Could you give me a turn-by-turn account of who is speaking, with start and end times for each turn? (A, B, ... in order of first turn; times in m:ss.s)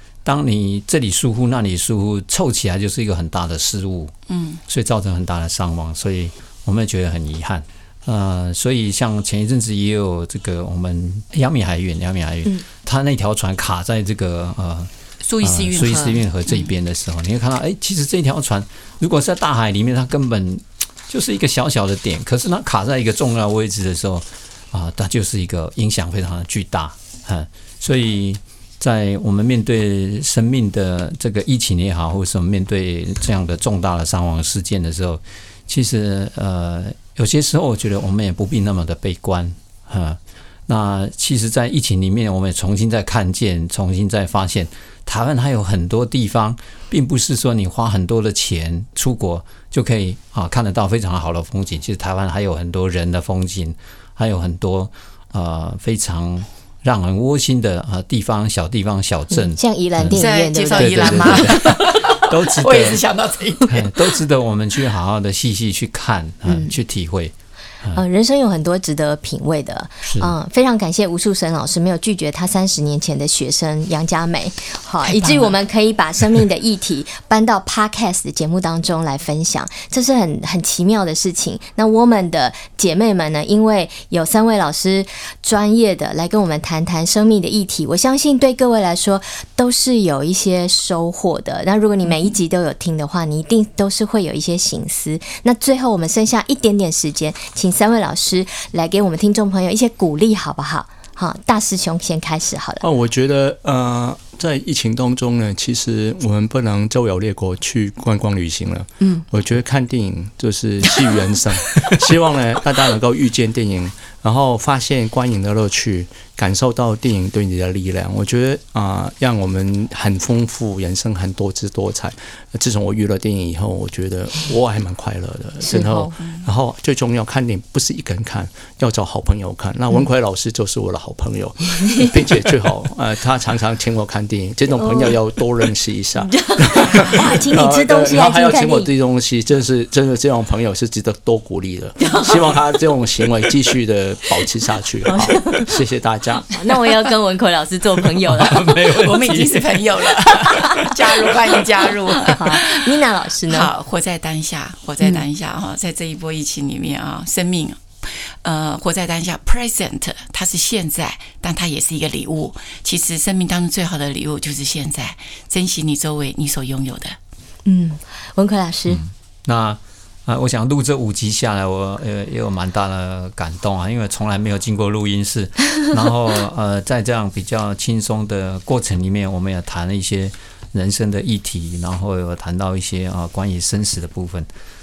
0:00.2-0:04.1 A
0:04.3-0:04.6 B
0:04.7-1:03.0 A
0:15.2-0:16.7 B
0:59.3-1:01.6 C
1:00.1-1:04.1 B
1:03.7-1:08.0 A
1:06.4-1:06.8 C
1:07.9-1:42.8 C
1:10.0-1:10.3 A
1:15.0-1:15.5 B
1:42.8-2:26.5 D
1:49.0-1:49.2 C
2:05.6-2:06.2 C
2:14.8-2:15.2 C
2:16.2-2:18.9 C
2:25.1-2:25.6 C
2:26.5-2:28.8 C
2:28.2-2:29.8 A
2:28.9-2:32.8 B
2:32.3-2:33.7 C
2:33.5-2:47.2 B
2:47.6-2:49.0 C
2:48.9-3:04.5 A